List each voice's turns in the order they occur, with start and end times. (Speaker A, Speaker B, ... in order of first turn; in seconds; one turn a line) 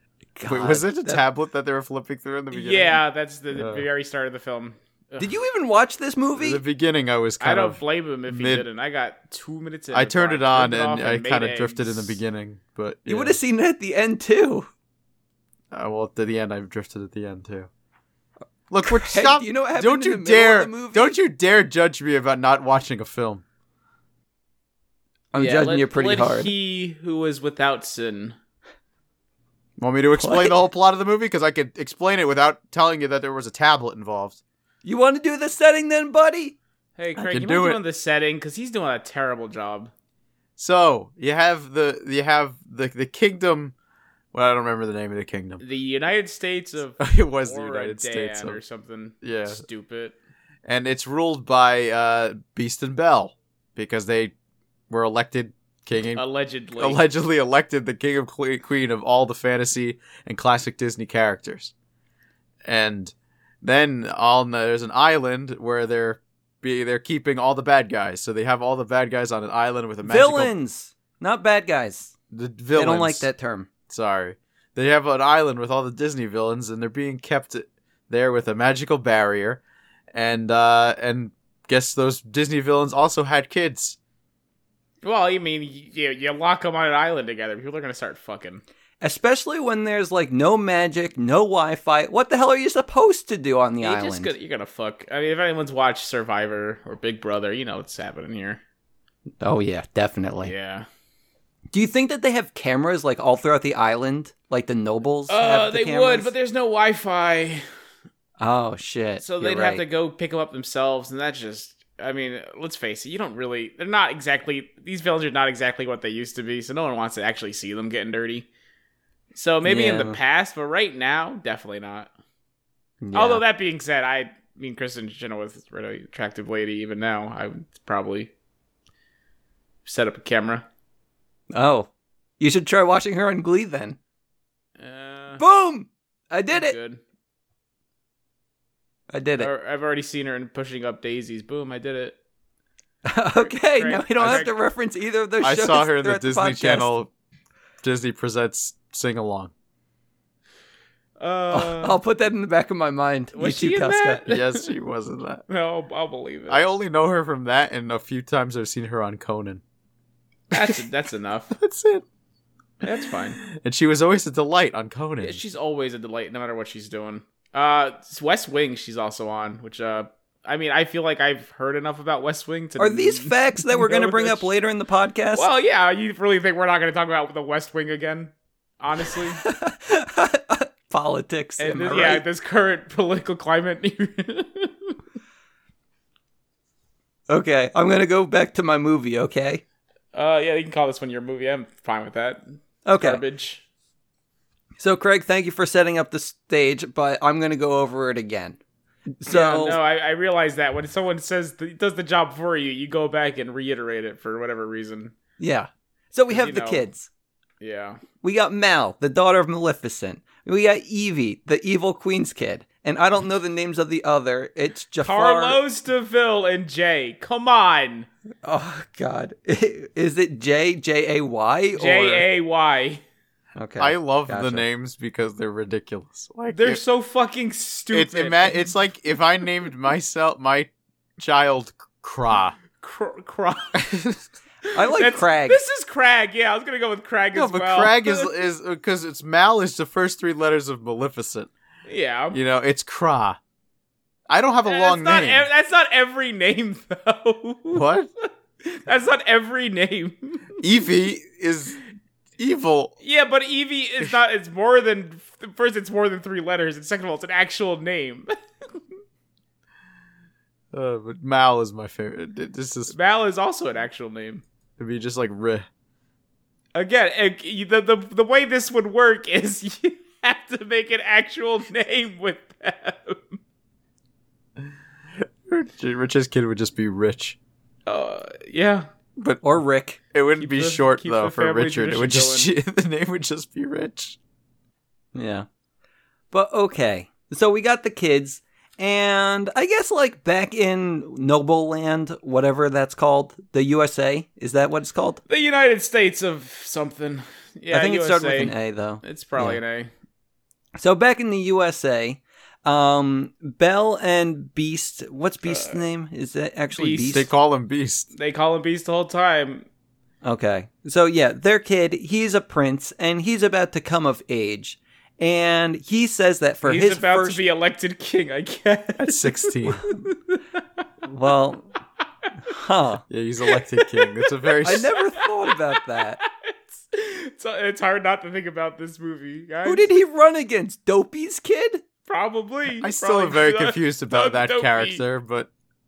Speaker A: 0.4-1.2
Speaker B: 0.5-3.0
Speaker C: 2.5-5.3
Speaker B: 3.5-3.9
Speaker A: 5.2-6.6
Speaker B: 6.4-8.7
Speaker C: 7.4-12.2
Speaker B: 9.9-13.4
Speaker A: 13.1-14.7
Speaker B: 15.7-17.7
Speaker B: 18.7-23.4
Speaker A: 18.8-21.1
Speaker A: 25.3-26.5
Speaker C: 25.4-28.4
Speaker B: 29.8-34.4
Speaker A: 30.2-30.6
Speaker A: 34.8-36.5
Speaker C: 37.0-39.9
Speaker B: 37.2-37.8
Speaker B: 40.6-43.7
Speaker B: 44.3-45.6
Speaker C: 45.6-50.1
Speaker B: 47.0-48.6
Speaker B: 49.2-49.6
Speaker B: 50.6-54.3
Speaker B: 54.9-56.2
Speaker C: 56.1-57.0
Speaker B: 56.8-61.7
Speaker B: 62.6-70.5
Speaker A: 70.0-72.1
Speaker B: 72.3-73.3
Speaker A: 72.8-73.7
Speaker B: 73.9-79.6
Speaker B: 80.1-84.0
Speaker C: 85.0-88.6
Speaker A: 89.0-94.3
Speaker C: 93.8-98.6
Speaker A: 99.4-100.5
Speaker C: 100.4-100.9
Speaker A: 101.7-106.3
Speaker C: 105.3-107.6
Speaker A: 108.4-109.8
Speaker C: 109.2-118.5
Speaker C: 119.3-122.1
Speaker A: 119.6-120.2
Speaker A: 123.0-123.4
Speaker C: 123.1-128.3
Speaker C: 129.8-130.7
Speaker A: 131.5-131.9
Speaker A: 132.4-134.0
Speaker C: 134.8-135.4
Speaker A: 135.4-136.8
Speaker C: 136.5-137.0
Speaker A: 139.1-139.5
Speaker C: 139.4-142.2
Speaker A: 143.0-146.9
Speaker C: 143.4-144.5
Speaker B: 145.4-147.1
Speaker B: 147.8-149.5
Speaker C: 151.2-152.0
Speaker A: 151.5-154.2
Speaker C: 153.3-154.7
Speaker B: 154.3-155.4
Speaker C: 155.5-156.6
Speaker B: 156.5-159.6
Speaker C: 160.5-161.5
Speaker B: 161.5-162.0
Speaker C: 162.8-163.4
Speaker B: 163.4-165.4
Speaker C: 165.2-174.5
Speaker A: 172.8-175.5
Speaker C: 175.3-179.4
Speaker A: 179.4-182.2
Speaker C: 181.6-184.9
Speaker A: 187.3-189.6
Speaker C: 190.1-193.6
Speaker A: 192.8-193.2
Speaker A: 194.8-198.6
Speaker A: 199.2-199.8
Speaker C: 199.3-205.1
Speaker A: 205.4-207.1
Speaker C: 206.3-206.9
Speaker C: 207.6-208.0
Speaker A: 208.2-215.6
Speaker C: 215.0-218.1
Speaker A: 218.4-222.2
Speaker C: 221.8-223.0
Speaker A: 223.6-224.6
Speaker B: 223.8-226.8
Speaker C: 226.5-228.6
Speaker B: 227.9-232.6
Speaker C: 232.8-233.8
Speaker B: 233.8-234.2
Speaker A: 234.7-235.6
Speaker C: 234.9-238.3
Speaker B: 237.3-241.5
Speaker C: 241.9-242.4
Speaker B: 242.3-243.4
Speaker B: 244.3-245.5
Speaker C: 244.6-247.8
Speaker B: 247.7-248.1
Speaker C: 248.6-250.4
Speaker B: 250.6-251.8
Speaker B: 252.4-252.9
Speaker C: 253.0-258.3
Speaker B: 260.7-262.9
Speaker C: 262.9-264.4
Speaker B: 264.8-265.6
Speaker C: 266.8-273.4
Speaker B: 275.5-277.4
Speaker C: 277.9-278.9
Speaker B: 279.2-279.4
Speaker A: 279.4-280.0
Speaker B: 280.1-284.2
Speaker C: 280.4-282.5
Speaker A: 285.1-285.5
Speaker A: 286.3-295.2
Speaker C: 295.3-299.9
Speaker A: 297.7-299.6
Speaker A: 300.8-307.3
Speaker C: 305.4-305.8
Speaker C: 306.8-307.2
Speaker B: 307.1-308.1
Speaker C: 308.1-309.6
Speaker A: 310.2-317.4
Speaker C: 316.6-320.4
Speaker B: 319.0-319.8
Speaker A: 321.0-321.7
Speaker A: 322.5-323.0
Speaker B: 323.1-324.9
Speaker C: 323.5-329.9
Speaker A: 324.6-326.2
Speaker A: 329.6-331.8
Speaker C: 332.1-335.0
Speaker B: 332.8-335.5